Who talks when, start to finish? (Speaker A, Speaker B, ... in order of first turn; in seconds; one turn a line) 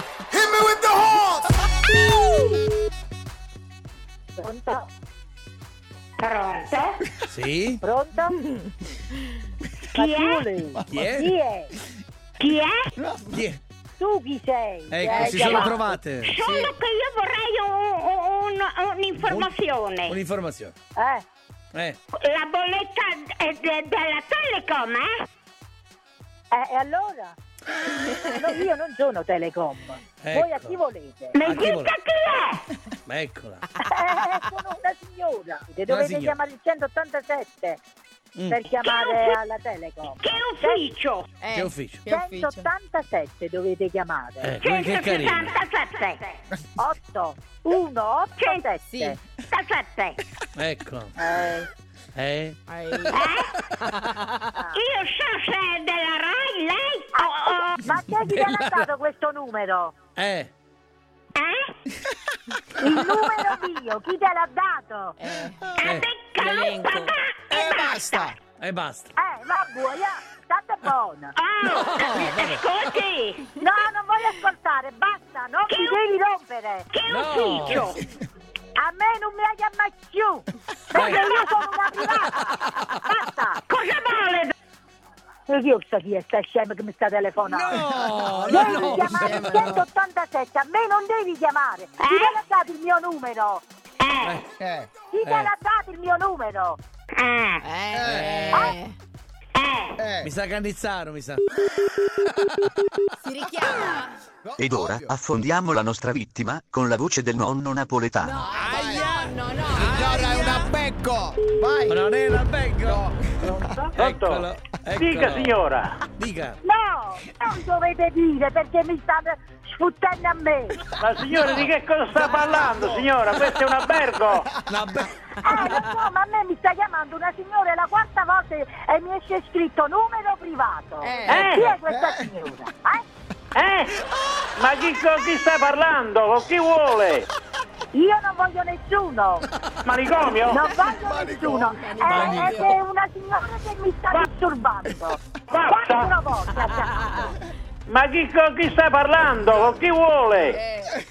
Speaker A: 0.3-1.5
Speaker B: 4.3-4.9
Speaker C: 6.2-7.0
Speaker D: 7.3-7.8
Speaker B: 7.8-8.4
Speaker C: 9.9-10.5
Speaker B: 9.9-11.7
Speaker D: 10.9-11.3
Speaker C: 12.4-12.8
Speaker D: 13.3-13.6
Speaker B: 14.0-16.0
Speaker D: 14.9-16.4
Speaker C: 15.4-20.2
Speaker E: 16.4-16.7
Speaker D: 19.2-19.5
Speaker D: 20.1-20.7
Speaker B: 20.9-21.2
Speaker C: 22.2-25.1
Speaker B: 26.5-27.4
Speaker B: 28.0-31.4
Speaker D: 30.2-30.8
Speaker C: 31.3-32.6
Speaker D: 31.4-31.9
Speaker D: 33.1-33.6
Speaker B: 33.8-37.8
Speaker D: 35.9-36.4
Speaker D: 38.4-38.6
Speaker B: 38.5-40.8
Speaker C: 38.8-39.3
Speaker C: 40.2-41.3
Speaker E: 41.4-42.7
Speaker D: 41.5-42.0
Speaker B: 42.1-44.5
Speaker D: 44.4-45.5
Speaker C: 44.6-46.4
Speaker B: 46.8-49.2
Speaker C: 48.4-48.6
Speaker E: 48.9-49.1
Speaker C: 49.5-50.2
Speaker D: 50.5-51.1
Speaker B: 51.2-51.7
Speaker D: 52.1-53.1
Speaker E: 52.7-53.2
Speaker C: 53.1-53.5
Speaker C: 54.7-57.7
Speaker B: 57.1-59.9
Speaker D: 57.9-58.9
Speaker D: 60.1-60.5
Speaker C: 61.4-61.7
Speaker B: 62.8-65.1
Speaker E: 65.2-65.7
Speaker C: 65.8-68.3
Speaker D: 65.8-66.1
Speaker E: 66.4-67.1
Speaker A: 67.5-68.3
Speaker D: 68.6-69.1
Speaker B: 69.2-71.3
Speaker C: 71.4-73.5
Speaker D: 71.6-72.6
Speaker B: 73.6-76.8
Speaker C: 75.7-76.0
Speaker C: 76.9-78.0
Speaker D: 77.1-78.0
Speaker B: 78.8-83.6
Speaker D: 80.9-81.2
Speaker C: 81.0-81.4
Speaker C: 83.7-84.5
Speaker B: 85.5-87.8
Speaker D: 87.4-89.8
Speaker A: 87.9-88.6
Speaker B: 88.5-93.6
Speaker E: 88.9-89.7
Speaker C: 92.0-92.3
Speaker C: 94.0-94.4
Speaker A: 94.6-94.9
Speaker B: 95.1-96.8
Speaker D: 95.2-95.5
Speaker C: 97.2-97.6
Speaker E: 97.6-98.9
Speaker A: 97.9-98.3
Speaker D: 97.9-98.8
Speaker B: 98.5-98.8
Speaker C: 99.5-100.0
Speaker A: 100.0-100.3
Speaker D: 100.2-101.5
Speaker E: 103.2-104.1
Speaker A: 104.4-105.1
Speaker F: 104.6-108.4
Speaker E: 108.2-110.5
Speaker D: 108.4-110.7
Speaker A: 108.4-109.2
Speaker A: 109.7-112.0
Speaker D: 111.9-113.1
Speaker A: 112.8-113.2
Speaker D: 113.9-116.6
Speaker G: 114.0-114.4
Speaker G: 115.0-116.0
Speaker B: 116.6-120.8
Speaker G: 121.0-124.4
Speaker A: 122.3-123.2
Speaker D: 124.7-125.7
Speaker B: 125.4-133.0
Speaker E: 131.0-131.6
Speaker A: 131.9-132.2
Speaker G: 133.6-133.9
Speaker G: 134.6-137.3
Speaker B: 137.9-139.4
Speaker G: 139.9-140.5
Speaker B: 140.4-147.3
Speaker A: 141.0-141.8
Speaker E: 142.0-142.7
Speaker D: 142.1-142.7
Speaker G: 147.9-150.6
Speaker E: 150.5-150.9